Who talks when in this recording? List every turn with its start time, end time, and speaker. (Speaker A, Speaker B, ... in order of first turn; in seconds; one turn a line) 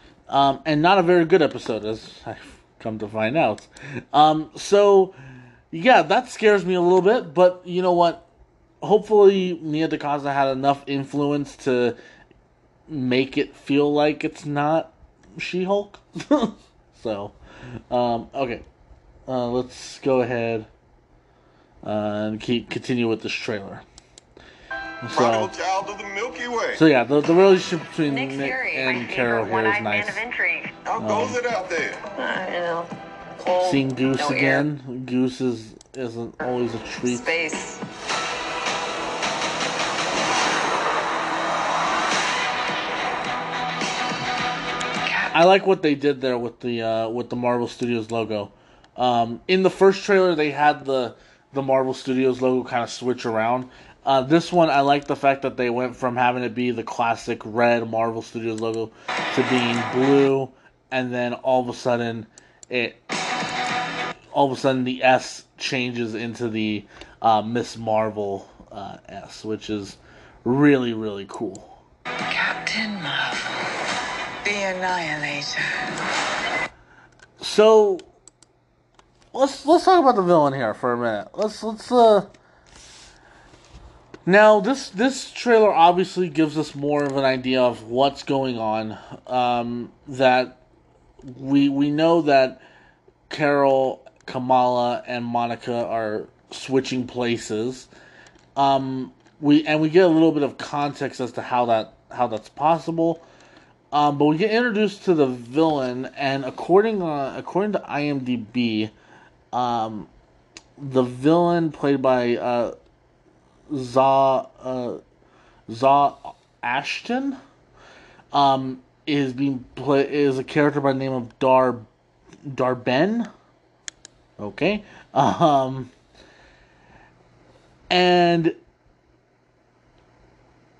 Speaker A: 0.3-5.1
Speaker A: 5.7-8.2
Speaker A: 8.8-12.0
Speaker A: 12.9-17.3
Speaker A: 17.9-18.6
Speaker A: 19.3-20.7
Speaker A: 21.8-23.8
Speaker A: 25.0-25.5
Speaker B: 25.1-26.8
Speaker A: 26.8-30.2
Speaker C: 28.1-30.7
Speaker B: 30.8-32.0
Speaker A: 31.0-31.4
Speaker C: 32.1-34.7
Speaker A: 33.6-37.3
Speaker C: 37.0-37.8
Speaker A: 45.3-63.0
Speaker A: 64.3-71.8
Speaker D: 72.3-73.5
Speaker D: 74.4-75.6
Speaker A: 77.4-78.1
Speaker A: 79.3-82.3
Speaker A: 84.2-90.6
Speaker A: 91.2-92.6
Speaker A: 93.3-97.9
Speaker A: 98.5-103.2
Speaker A: 103.9-108.9
Speaker A: 109.5-110.1
Speaker A: 110.8-112.7
Speaker A: 113.7-115.0
Speaker A: 115.7-117.4
Speaker A: 118.3-121.9
Speaker A: 122.5-123.3
Speaker A: 124.4-125.9
Speaker A: 127.9-128.6